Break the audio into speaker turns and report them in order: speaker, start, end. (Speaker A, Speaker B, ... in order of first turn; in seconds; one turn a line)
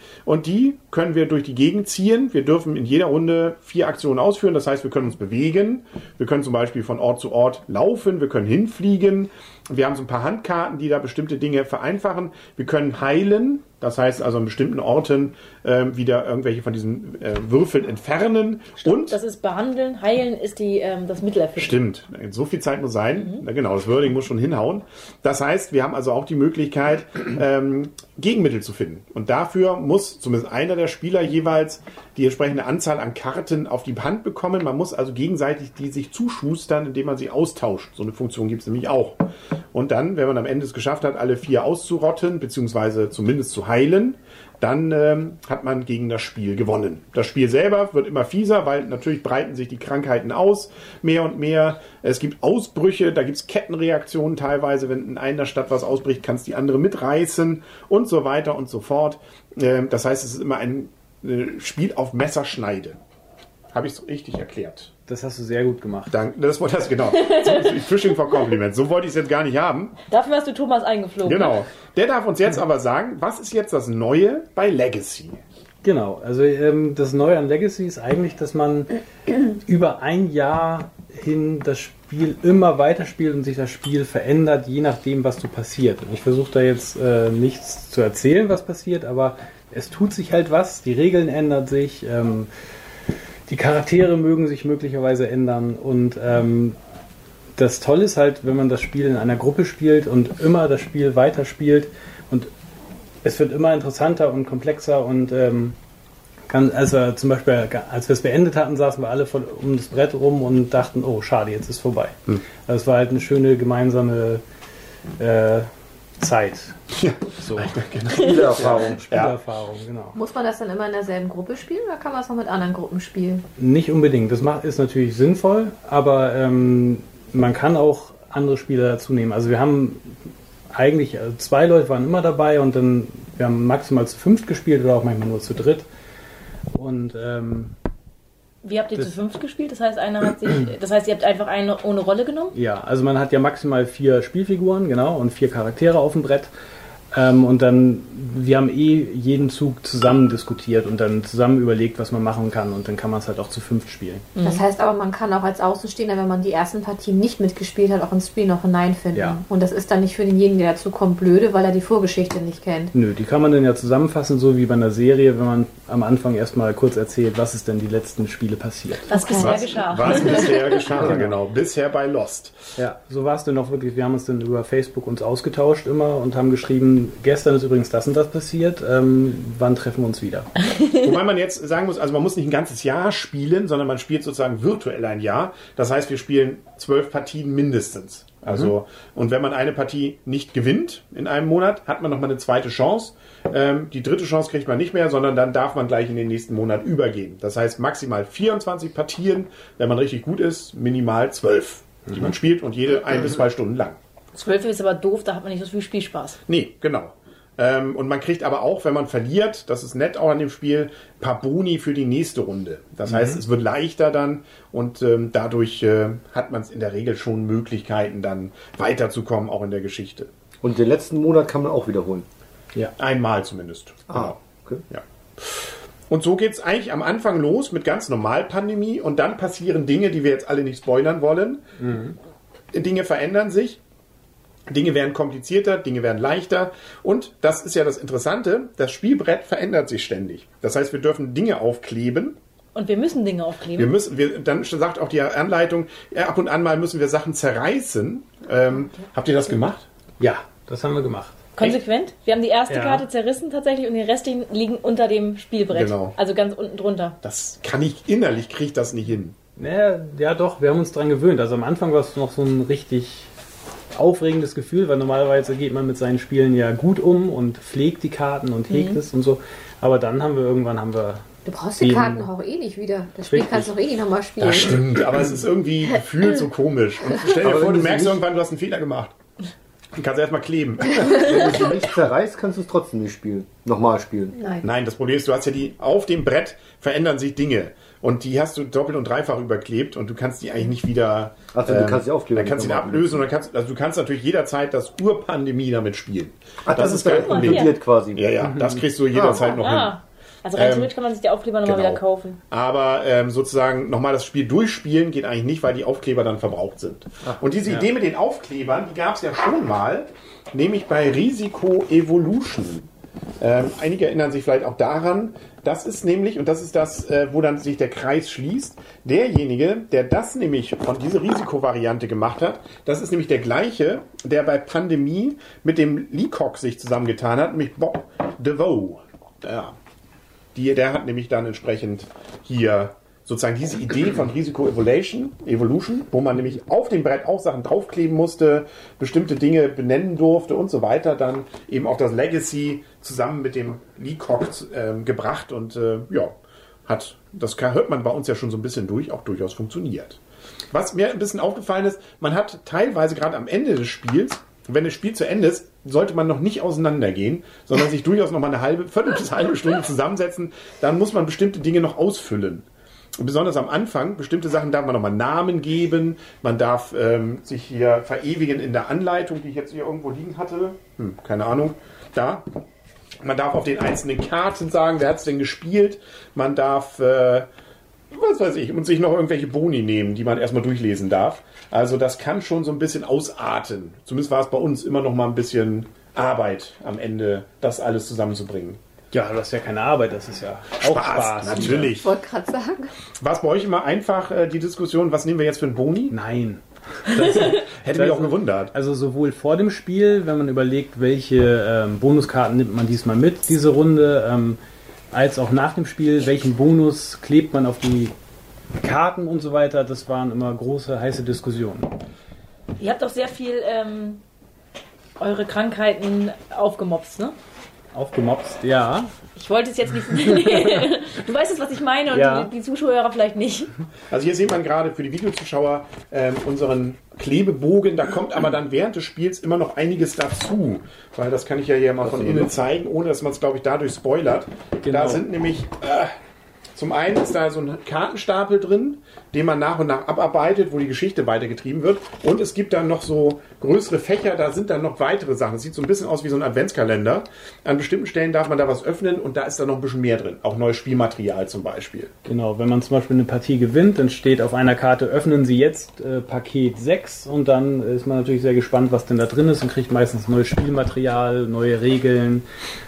Speaker A: 0.2-19.2
Speaker B: 18.8-21.8
Speaker A: 21.6-63.0
Speaker A: 63.7-64.9
Speaker C: 65.1-66.2
Speaker A: 66.1-70.0
Speaker B: 67.1-68.0
Speaker B: 70.1-71.6
Speaker A: 71.2-75.4
Speaker C: 75.8-92.5
Speaker C: 93.5-96.8
Speaker C: 97.5-102.5
Speaker C: 103.2-105.8
Speaker C: 106.5-114.4
Speaker C: 115.2-116.8
Speaker A: 116.9-119.4
Speaker C: 117.3-117.8
Speaker B: 118.2-118.4
Speaker D: 118.2-119.0
Speaker C: 119.1-120.2
Speaker E: 120.2-123.4
Speaker C: 123.6-130.1
Speaker C: 130.7-135.8
Speaker C: 136.7-137.8
Speaker B: 138.6-142.5
Speaker C: 142.5-146.5
Speaker C: 147.1-154.2
Speaker B: 154.3-154.6
Speaker E: 154.4-162.9
Speaker C: 159.1-159.4
Speaker C: 162.9-169.1
Speaker B: 169.1-170.8
Speaker E: 169.1-170.5
Speaker A: 169.3-172.6
Speaker C: 171.0-171.3
Speaker C: 172.8-180.5
Speaker A: 180.9-204.0
Speaker B: 204.3-206.4
Speaker A: 206.5-220.3
Speaker C: 213.1-213.4
Speaker D: 220.6-222.2
Speaker A: 223.0-224.4
Speaker D: 224.1-224.8
Speaker A: 224.9-231.6
Speaker C: 231.8-232.2
Speaker A: 232.7-233.8
Speaker A: 234.7-242.4
Speaker B: 242.8-243.9
Speaker A: 243.8-249.8
Speaker C: 250.2-251.4
Speaker B: 251.6-257.2
Speaker C: 252.7-253.1
Speaker A: 255.7-256.1
Speaker A: 257.2-259.4
Speaker C: 259.6-263.3
Speaker C: 263.9-271.3
Speaker B: 268.7-269.0
Speaker E: 271.4-274.9
Speaker C: 271.8-272.3
Speaker C: 273.3-273.7
Speaker A: 274.4-279.1
Speaker D: 277.3-278.2
Speaker A: 279.9-281.7
Speaker D: 281.1-284.4
Speaker E: 284.4-284.6
Speaker A: 284.6-299.9
Speaker D: 291.5-293.2
Speaker D: 296.6-298.4
Speaker B: 297.0-297.7
Speaker C: 298.4-298.8
Speaker D: 299.1-299.5
Speaker B: 299.4-302.4
Speaker A: 300.5-300.9
Speaker A: 301.6-312.9
Speaker A: 313.4-329.8
Speaker A: 330.5-346.3
Speaker A: 346.9-350.2
Speaker A: 350.7-362.7
Speaker A: 363.2-372.5
Speaker A: 373.2-377.5
Speaker A: 378.1-388.8
Speaker C: 389.1-391.9
Speaker A: 390.8-392.1
Speaker E: 391.9-392.9
Speaker A: 393.2-396.2
Speaker C: 396.1-404.6
Speaker A: 397.1-398.7
Speaker C: 405.1-408.1
Speaker C: 408.8-412.0
Speaker B: 412.8-414.2
Speaker B: 415.2-417.4
Speaker C: 417.9-419.1
Speaker B: 419.4-423.7
Speaker C: 422.1-422.5
Speaker A: 424.1-436.1
Speaker C: 434.8-435.2
Speaker A: 436.8-452.1
Speaker C: 452.2-462.4